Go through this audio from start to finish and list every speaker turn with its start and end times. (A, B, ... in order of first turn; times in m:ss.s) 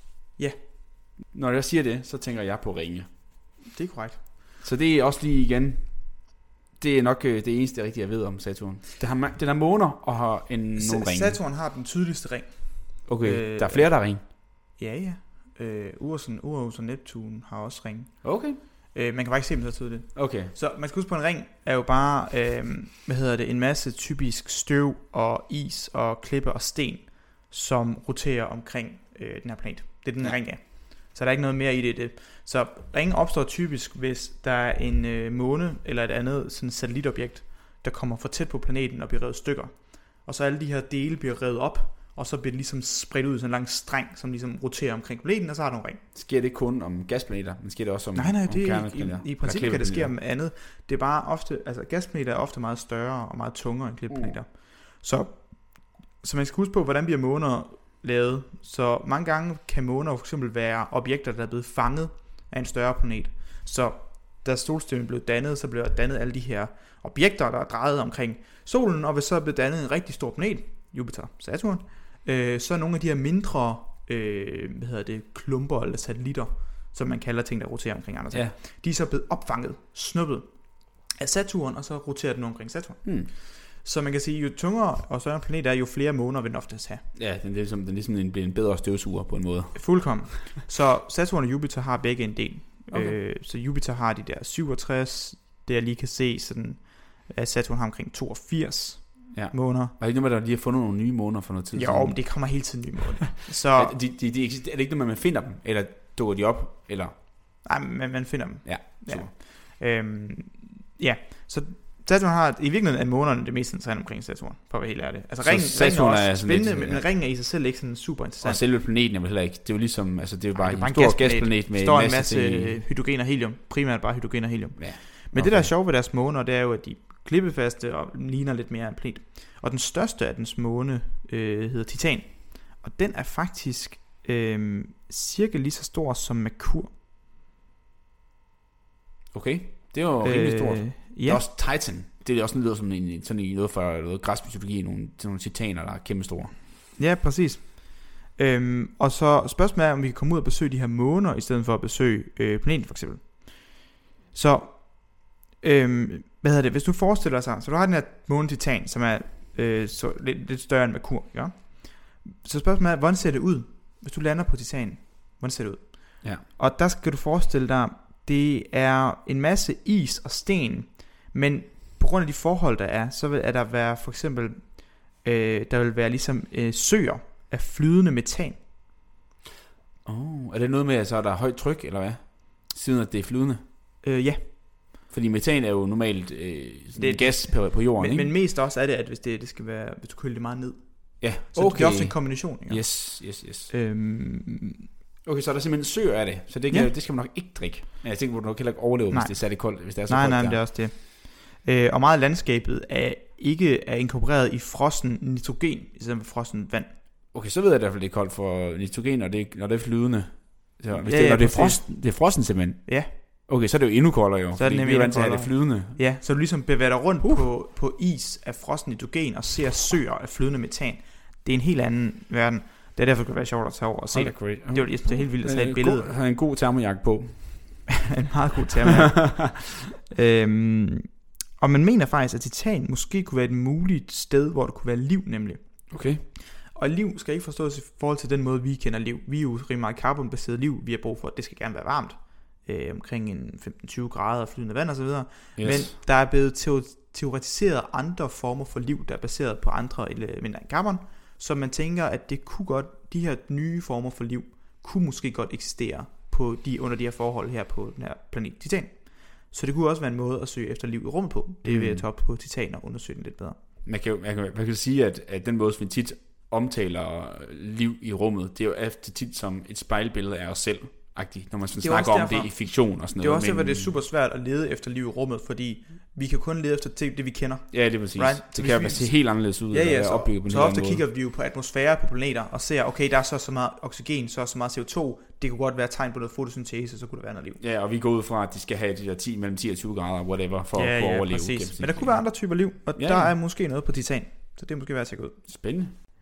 0:01.3-0:03.1 A
0:03.6-0:04.2 B
0:04.6-0:11.4 A
0:10.8-0:46.0 B
0:13.1-0:14.2 A
0:18.2-0:18.6 A
0:20.1-0:20.5 A
0:46.1-0:50.1 A
0:48.1-1:27.0 B
0:54.1-0:54.4 A
1:23.0-1:23.3 A
1:27.1-1:30.2 A
1:29.7-1:39.9 B
1:32.9-1:33.2 A
1:39.3-1:42.8 A
1:41.7-1:44.0 B
1:43.7-1:47.2 A
1:47.6-1:58.6 B
1:48.6-1:49.3 A
1:55.4-1:57.0 A
1:58.4-2:02.8 A
2:00.5-2:16.9 B
2:04.8-2:05.7 A
2:19.3-2:26.5 A
2:20.2-2:21.4 B
2:27.0-2:58.6 B
3:00.0-3:03.6 A
3:04.0-3:04.5 B
3:05.1-3:08.3 A
3:07.0-3:14.8 B
3:11.2-3:13.7 A
3:15.2-3:20.6 A
3:16.7-3:16.9 B
3:19.1-3:27.0 B
3:27.3-3:36.0 A
3:31.0-3:33.1 B
3:34.5-3:46.1 B
3:44.1-3:47.9 A
3:48.0-4:23.6 B
3:55.9-3:56.2 A
4:05.6-4:05.9 A
4:21.6-4:22.0 A
4:23.8-4:33.9 A
4:31.8-4:47.6 B
4:37.7-4:41.0 A
4:47.6-4:52.2 A
4:50.7-4:55.5 B
4:53.0-4:53.3 A
4:55.5-4:55.9 A